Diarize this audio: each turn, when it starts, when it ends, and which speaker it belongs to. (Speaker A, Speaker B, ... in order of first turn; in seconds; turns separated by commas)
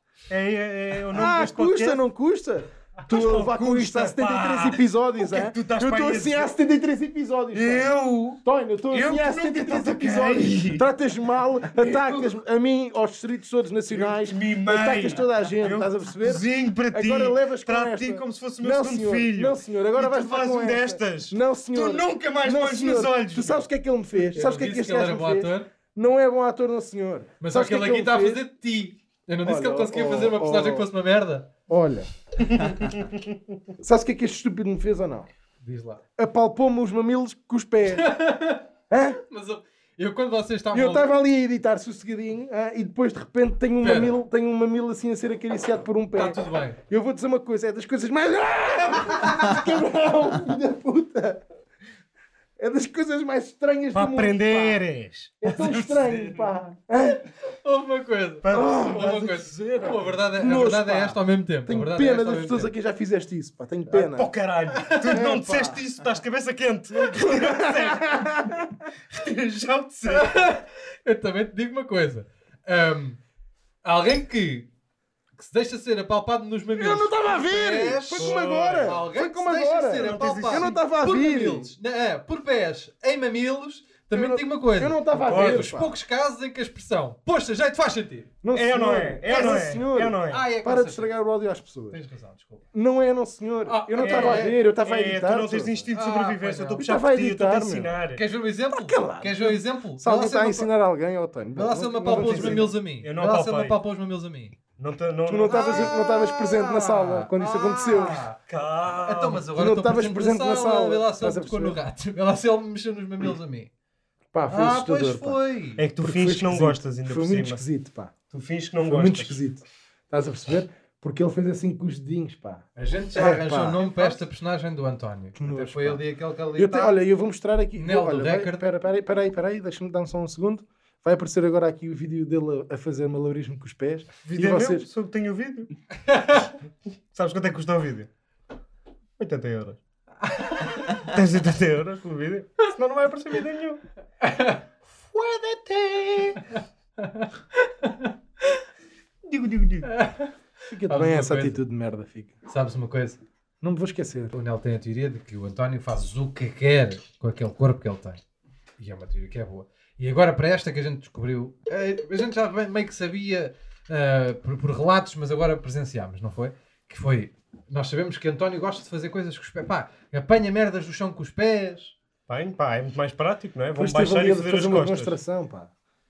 Speaker A: 0.3-2.0, Speaker B: 1.1-7.9, Speaker A: 3.0-6.5, Speaker A: 7.5-10.9, Speaker B: 8.4-28.4, Speaker A: 11.8-12.4, Speaker A: 13.9-23.7, Speaker C: 24.3-25.7, Speaker C: 27.4-31.5, Speaker B: 29.4-30.9, Speaker B: 31.7-32.1, Speaker A: 32.4-33.4, Speaker B: 33.8-35.3, Speaker C: 35.6-36.0, Speaker B: 36.2-38.1, Speaker C: 37.9-38.7, Speaker B: 38.9-39.2, Speaker C: 39.2-41.1, Speaker B: 40.7-51.4, Speaker C: 43.8-44.2, Speaker C: 46.1-46.8, Speaker B: 52.6-54.8, Speaker A: 53.9-56.5, Speaker B: 55.4-57.2, Speaker C: 57.4-62.7, Speaker A: 58.4-60.2, Speaker B: 58.5-59.2, Speaker B: 60.4-64.3, Speaker A: 63.9-70.4, Speaker B: 65.0-65.8, Speaker B: 66.9-68.8, Speaker C: 70.1-73.2, Speaker C: 73.8-74.7, Speaker C: 75.4-88.3, Speaker B: 76.7-81.7, Speaker A: 78.1-79.0, Speaker A: 79.9-80.8, Speaker B: 84.1-85.9, Speaker A: 85.3-85.7, Speaker B: 88.4-92.0, Speaker A: 88.5-90.4, Speaker C: 89.4-89.7, Speaker C: 90.3-91.1, Speaker C: 91.9-92.6, Speaker B: 92.7-95.8, Speaker C: 93.6-94.6, Speaker A: 94.0-98.2, Speaker C: 95.9-96.8, Speaker B: 96.8-97.9, Speaker C: 98.1-100.7, Speaker B: 98.7-102.7, Speaker C: 101.5-104.6, Speaker A: 102.0-103.8, Speaker A: 104.8-105.9, Speaker B: 105.2-108.2, Speaker C: 105.5-108.4, Speaker A: 108.5-109.5, Speaker C: 109.0-113.7, Speaker B: 109.5-111.8, Speaker B: 114.3-115.4, Speaker C: 114.5-115.8, Speaker A: 115.8-117.6, Speaker B: 116.0-118.1, Speaker A: 118.3-119.4, Speaker B: 118.8-124.1, Speaker C: 122.7-126.9, Speaker B: 125.3-126.0, Speaker B: 126.5-134.9, Speaker C: 127.8-128.6, Speaker A: 134.2-135.7, Speaker C: 136.1-136.4, Speaker A: 137.1-138.1, Speaker A: 139.2-139.8, Speaker C: 140.3-140.8, Speaker A: 140.8-143.8, Speaker C: 144.2-144.6, Speaker A: 145.0-146.5, Speaker C: 147.0-148.1, Speaker A: 149.2-149.9, Speaker C: 149.8-150.3, Speaker B: 150.7-152.3, Speaker C: 150.8-151.6, Speaker C: 152.4-153.2, Speaker B: 153.6-154.3, Speaker C: 154.3-158.2, Speaker C: 158.8-171.9, Speaker A: 172.3-175.1, Speaker B: 173.7-175.7